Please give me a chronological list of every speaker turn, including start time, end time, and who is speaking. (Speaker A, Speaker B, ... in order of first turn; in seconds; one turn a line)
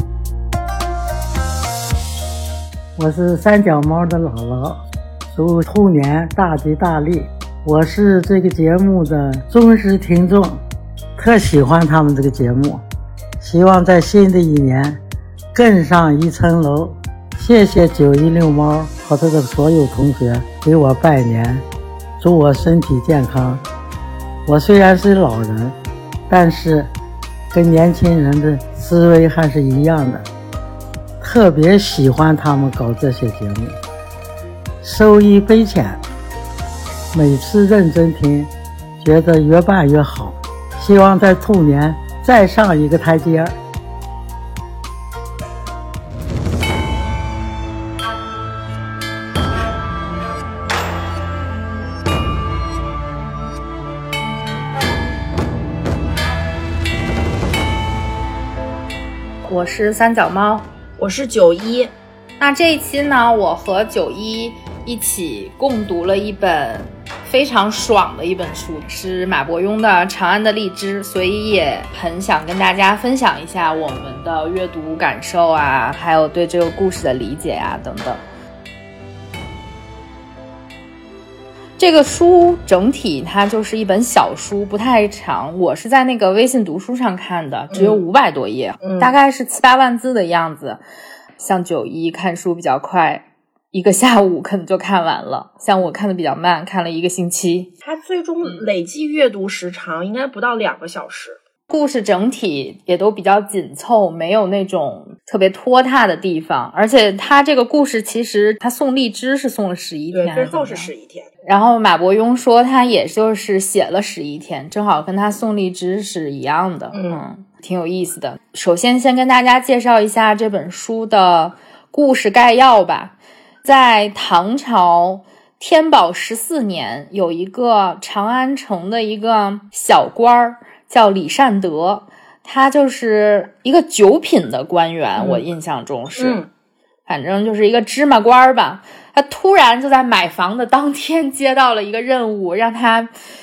Speaker A: 3.0-4.8
Speaker A: 5.3-10.6
Speaker A: 11.2-12.8
Speaker A: 13.4-15.0
Speaker A: 15.5-21.6
Speaker A: 22.2-23.6
Speaker A: 24.5-25.7
Speaker A: 26.3-26.9
Speaker A: 27.5-30.3
Speaker A: 31.2-33.7
Speaker A: 34.8-36.0
Speaker A: 37.1-43.5
Speaker B: 59.5-60.7
Speaker C: 61.0-61.9
Speaker B: 62.4-78.2
Speaker B: 81.8-90.8
Speaker C: 87.7-88.0
Speaker C: 88.8-89.1
Speaker B: 91.4-97.7
Speaker C: 97.8-101.4
Speaker B: 101.7-110.9
Speaker C: 110.1-111.3
Speaker B: 111.5-136.4
Speaker C: 116.9-117.2
Speaker C: 135.2-135.4
Speaker C: 136.2-136.5
Speaker B: 137.1-143.1